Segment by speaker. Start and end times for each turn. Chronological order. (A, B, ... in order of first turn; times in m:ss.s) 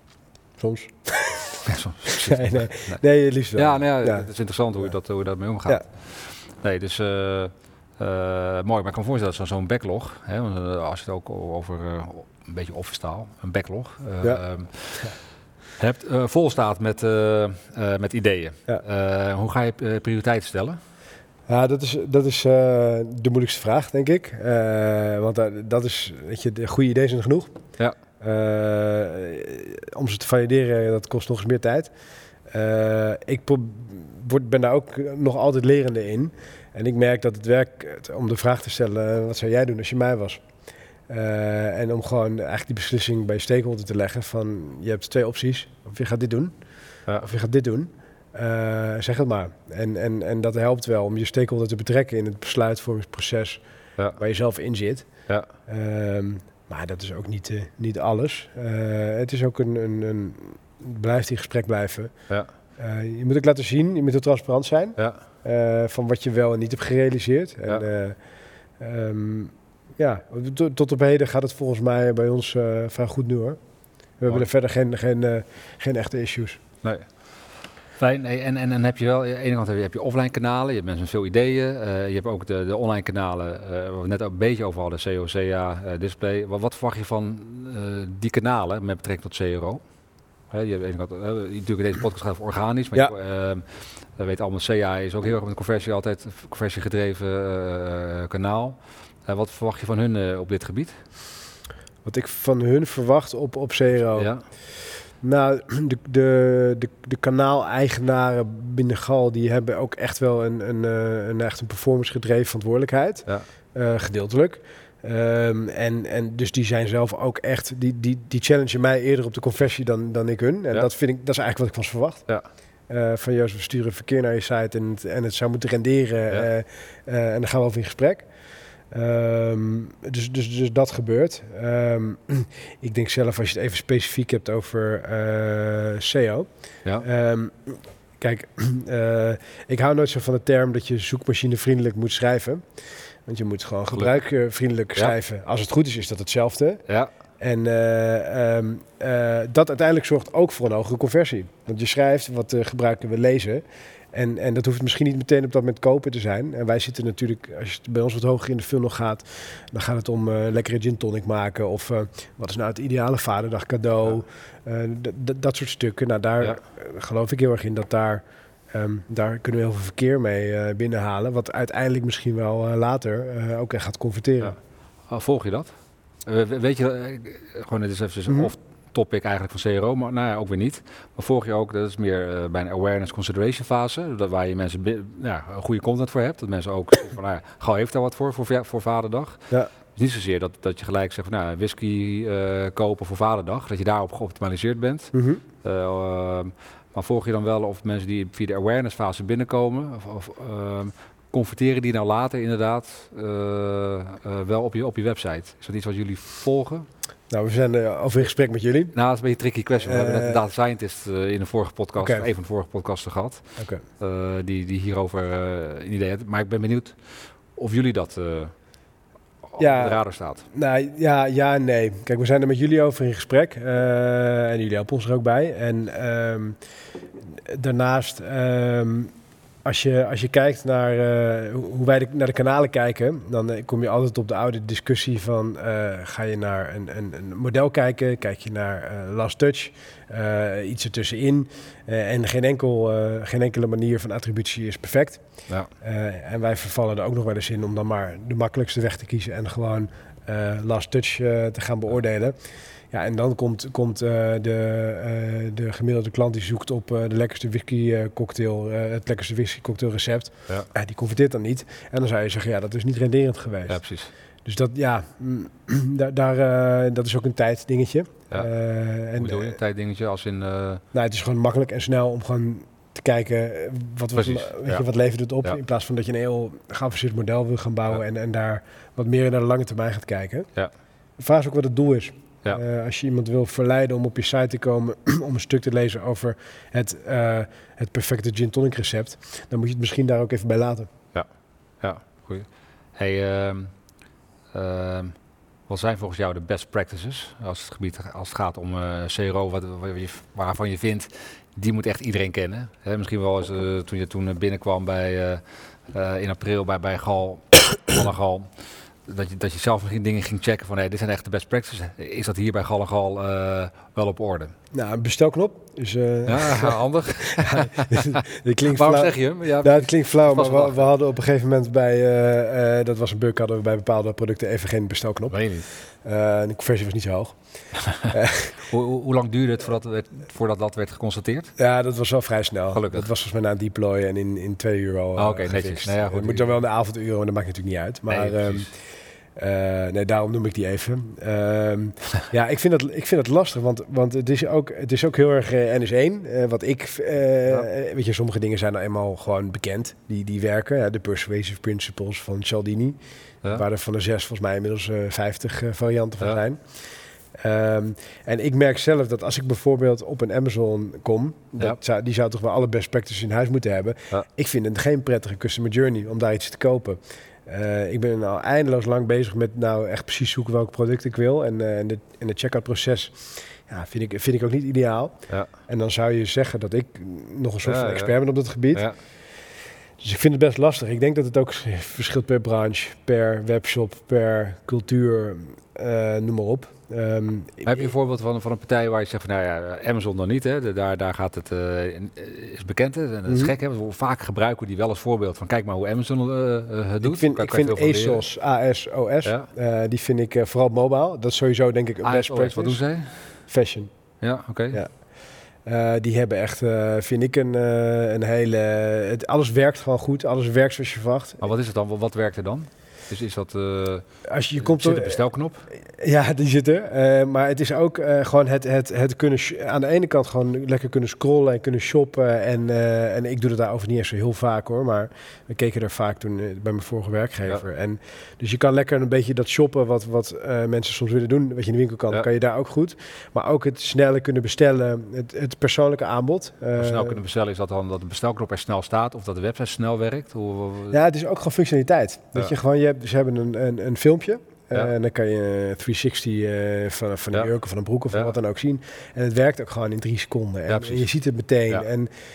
0:00.6-0:01.6 A
0:01.6-0:03.0 B
0:02.2-0:04.3 A
0:03.5-0:15.1 B
0:15.8-0:20.8 B
0:21.5-0:27.5 A
0:28.2-0:31.9 A
0:32.5-0:40.4 A
0:41.1-0:46.5 A
0:47.2-0:53.6 A
0:54.2-0:55.1 A
0:55.7-1:02.1 A
1:02.8-1:08.2 A
1:08.8-1:13.6 A
1:14.2-1:16.6 A
1:16.8-1:17.3 B
1:18.0-1:29.8 B
1:30.5-1:41.0 B
1:42.0-2:02.2 A
1:44.1-1:44.4 B
2:02.9-2:08.2 A
2:08.9-2:16.5 A
2:17.0-2:22.6 A
2:23.2-2:26.8 A
2:27.4-2:54.6 A
2:55.1-2:55.7 B
2:56.2-3:26.9 B
2:58.3-2:58.5 A
3:15.1-3:15.4 A
3:27.3-3:29.0 A
3:28.9-3:38.5 B
3:29.8-3:30.4 A
3:32.0-3:32.3 A
3:33.6-3:33.8 A
3:39.5-3:40.4 B
3:39.6-3:46.6 A
3:47.5-3:49.1 A
3:49.6-4:05.2 A
4:05.8-4:12.4 A
4:12.9-4:23.8 A
4:23.7-4:24.1 B
4:24.4-4:29.6 A
4:29.2-4:30.8 B
4:30.9-4:40.5 A
4:34.2-4:34.8 B
4:41.2-4:50.9 A
4:51.8-4:53.8 B
4:54.5-5:14.5 B
5:14.7-5:28.6 A
5:16.3-5:20.8 B
5:25.3-5:25.7 B
5:28.7-5:31.5 B
5:31.6-5:56.8 A
5:32.7-5:33.1 B
5:35.2-5:36.5 B
5:38.1-5:38.7 B
5:57.4-6:18.9 A
6:17.6-6:18.1 B
6:20.0-6:27.9 A
6:27.6-6:38.2 B
6:33.3-6:33.5 A
6:37.0-6:43.9 A
6:42.0-6:43.4 B
6:44.2-6:44.8 B
6:44.7-6:45.1 A
6:45.6-6:51.4 A
6:51.4-6:55.7 B
6:54.2-7:17.2 A
7:16.8-7:21.0 B
7:20.9-7:32.1 A
7:30.7-7:31.1 B